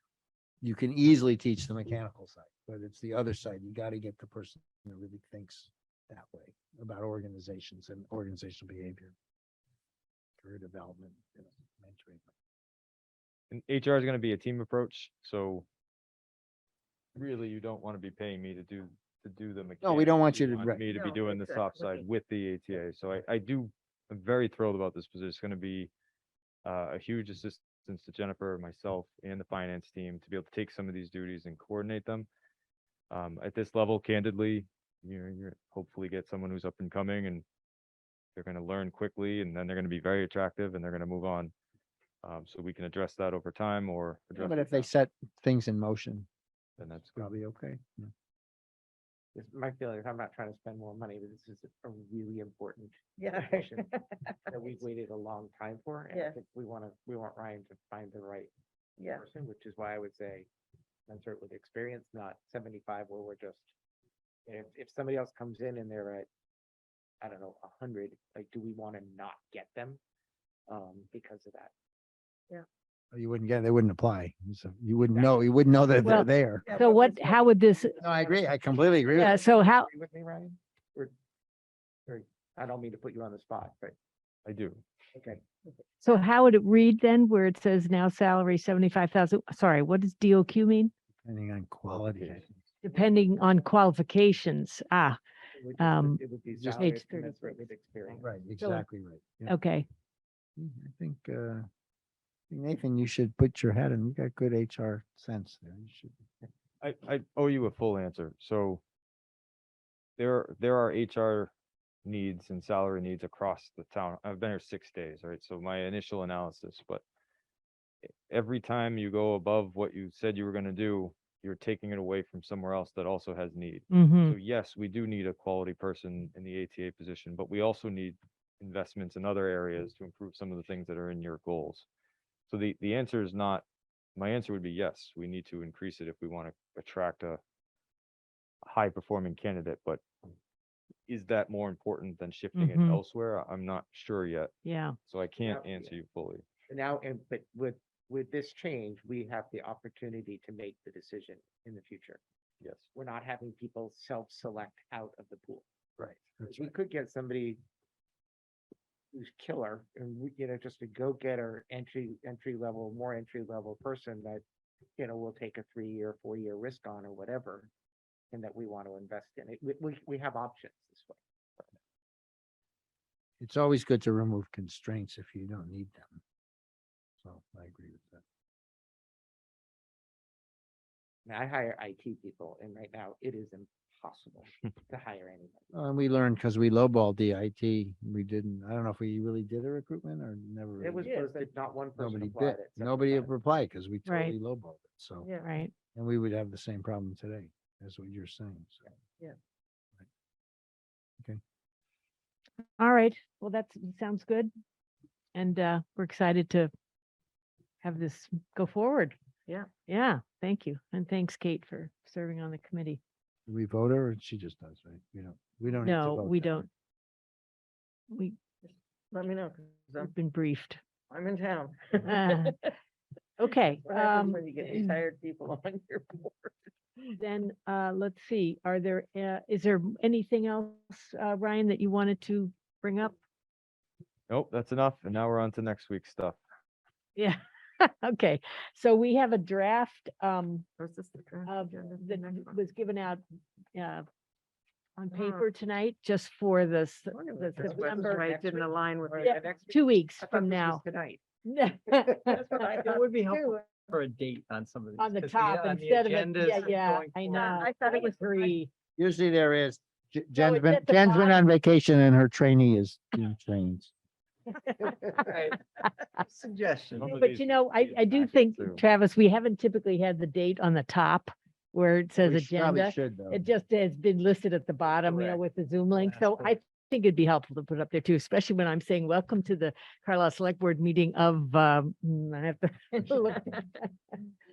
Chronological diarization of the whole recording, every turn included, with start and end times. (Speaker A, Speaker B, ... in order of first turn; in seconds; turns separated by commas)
Speaker A: 0.6-9.2, Speaker A: 10.4-12.3, Speaker B: 13.5-15.7, Speaker B: 17.2-25.9, Speaker A: 19.8-20.8, Speaker C: 20.9-22.1, Speaker B: 26.6-32.3, Speaker B: 33.1-37.5, Speaker B: 38.4-41.5, Speaker B: 42.2-44.9, Speaker A: 44.4-46.3, Speaker B: 46.8-47.3, Speaker A: 47.1-48.1, Speaker D: 49.4-53.9, Speaker C: 53.2-54.5, Speaker D: 54.5-58.5, Speaker C: 56.1-56.4, Speaker C: 59.0-59.3, Speaker D: 59.0-60.5, Speaker D: 61.1-63.7, Speaker D: 64.5-66.3, Speaker D: 67.2-70.0, Speaker D: 70.7-71.7, Speaker A: 73.1-76.7, Speaker E: 76.0-78.0, Speaker D: 76.7-77.4, Speaker C: 76.7-77.2, Speaker D: 78.0-81.1, Speaker A: 78.0-79.3, Speaker E: 79.1-79.9, Speaker D: 82.1-84.0, Speaker B: 84.5-84.8, Speaker D: 85.2-85.4, Speaker E: 86.0-90.9, Speaker A: 91.2-92.5, Speaker B: 91.9-92.5, Speaker E: 92.8-95.2, Speaker D: 95.6-98.3, Speaker E: 95.8-96.2, Speaker A: 96.5-96.9, Speaker E: 96.8-97.7, Speaker A: 98.2-99.5, Speaker E: 98.6-98.9, Speaker E: 99.5-99.9, Speaker A: 100.6-101.7, Speaker A: 102.5-106.1, Speaker B: 106.8-108.8, Speaker B: 110.2-111.5, Speaker B: 112.0-117.0, Speaker B: 118.0-131.9, Speaker E: 123.9-124.4, Speaker B: 132.5-133.6, Speaker B: 134.2-137.4, Speaker B: 138.6-140.0, Speaker B: 141.1-144.5, Speaker E: 142.6-143.0, Speaker E: 144.7-145.0, Speaker B: 145.1-146.4, Speaker D: 145.4-146.0, Speaker D: 146.7-152.2, Speaker B: 152.6-152.9, Speaker D: 152.9-155.7, Speaker A: 156.0-156.7, Speaker D: 156.5-157.6, Speaker D: 159.1-164.4, Speaker D: 165.0-167.7, Speaker D: 168.3-171.2, Speaker A: 173.4-176.2, Speaker A: 177.2-178.2, Speaker D: 181.3-185.7, Speaker A: 185.7-191.2, Speaker D: 190.8-193.3, Speaker C: 191.0-191.4, Speaker A: 192.0-195.3, Speaker E: 194.1-194.4, Speaker C: 195.2-195.5, Speaker E: 195.4-195.7, Speaker A: 195.9-198.8, Speaker E: 202.8-204.5, Speaker E: 205.3-206.7, Speaker E: 207.8-209.2, Speaker E: 209.9-213.0, Speaker A: 213.5-216.6, Speaker E: 215.8-216.7, Speaker E: 218.1-218.4, Speaker C: 218.7-220.1, Speaker E: 220.0-220.8, Speaker C: 221.1-222.6, Speaker E: 222.1-222.6, Speaker E: 223.4-225.0, Speaker C: 223.8-226.6, Speaker E: 227.2-233.2, Speaker B: 234.3-236.4, Speaker E: 237.2-240.7, Speaker C: 240.8-242.7, Speaker E: 241.5-243.2, Speaker E: 243.8-244.1, Speaker E: 245.0-248.3, Speaker C: 245.1-245.5, Speaker C: 247.1-249.6, Speaker D: 247.6-251.2, Speaker E: 249.2-250.8, Speaker E: 251.4-253.7, Speaker D: 252.1-252.8, Speaker F: 252.8-257.6, Speaker E: 255.0-258.7, Speaker C: 257.3-258.6, Speaker A: 259.0-263.9, Speaker E: 260.4-261.4, Speaker F: 265.2-267.2, Speaker B: 267.0-268.8, Speaker E: 267.1-284.2, Speaker A: 272.2-273.4, Speaker F: 275.1-275.4, Speaker F: 276.0-276.3